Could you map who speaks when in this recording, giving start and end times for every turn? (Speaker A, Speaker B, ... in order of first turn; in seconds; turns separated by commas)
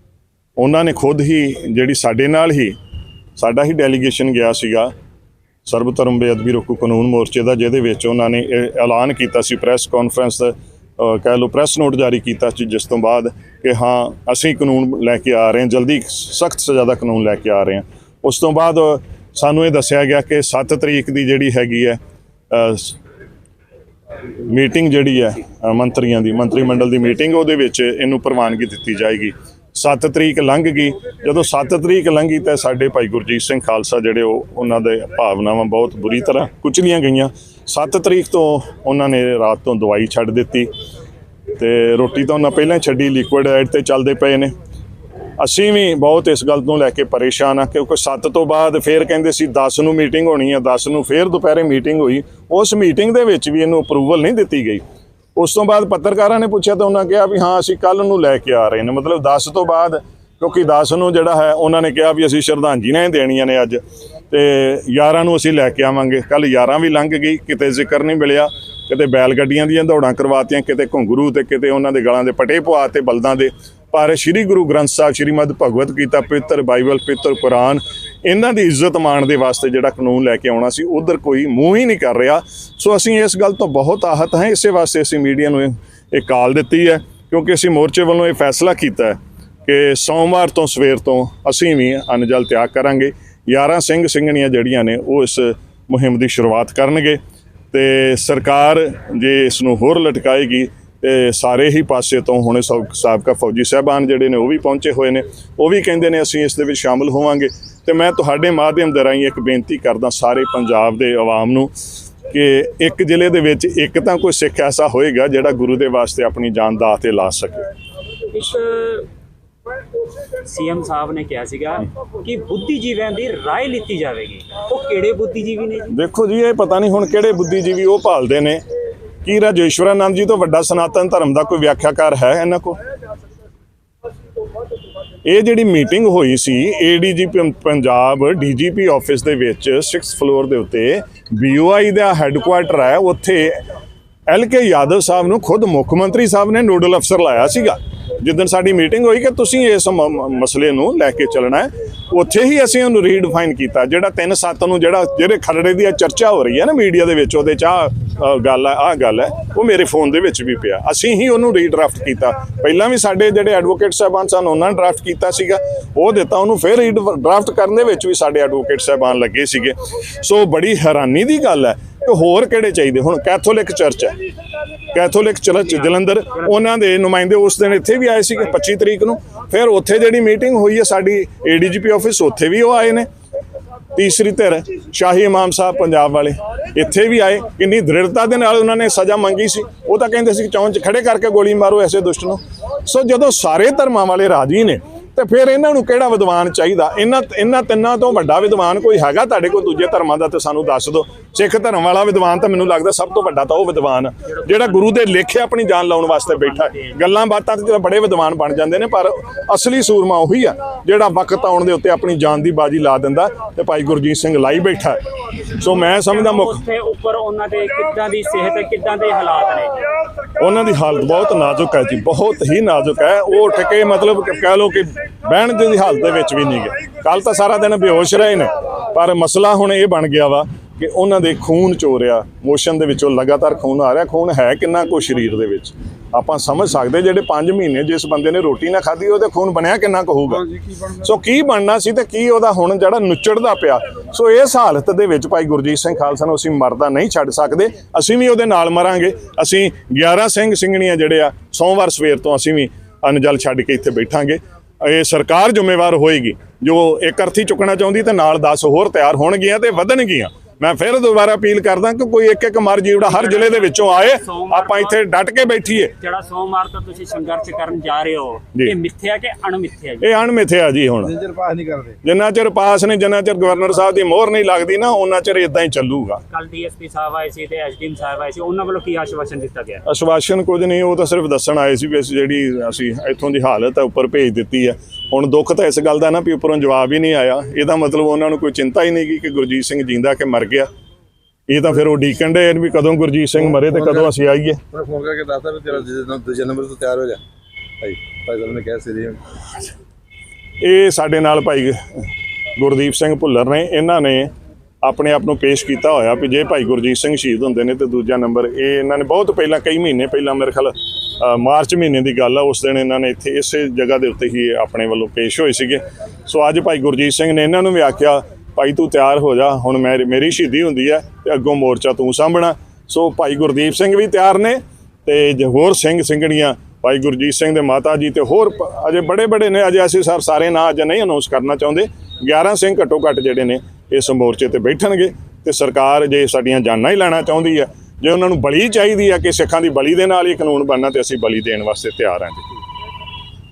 Speaker A: 0.6-2.8, Speaker A: 3.4-4.9, Speaker A: 5.7-22.0, Speaker A: 22.5-23.0, Speaker A: 24.4-40.7, Speaker A: 41.5-44.5, Speaker A: 45.4-54.8, Speaker A: 55.4-97.2, Speaker A: 97.7-111.8, Speaker A: 112.3-117.7, Speaker B: 118.3-119.1, Speaker B: 120.3-125.9, Speaker A: 125.9-128.6, Speaker A: 129.2-132.8, Speaker A: 135.2-143.6, Speaker A: 144.3-174.2, Speaker A: 174.9-183.1, Speaker A: 183.9-216.6, Speaker B: 204.4-204.8, Speaker B: 206.6-206.9, Speaker B: 215.9-219.9, Speaker A: 220.4-265.9, Speaker B: 263.0-265.0, Speaker B: 266.0-270.1, Speaker A: 270.0-271.2, Speaker C: 271.2-272.0, Speaker A: 272.0-276.2, Speaker B: 276.3-279.8, Speaker A: 279.9-290.7, Speaker A: 291.5-294.6, Speaker C: 293.6-294.1, Speaker C: 294.7-297.2, Speaker C: 297.8-299.2, Speaker A: 300.6-301.8, Speaker A: 302.6-304.3, Speaker A: 304.8-342.5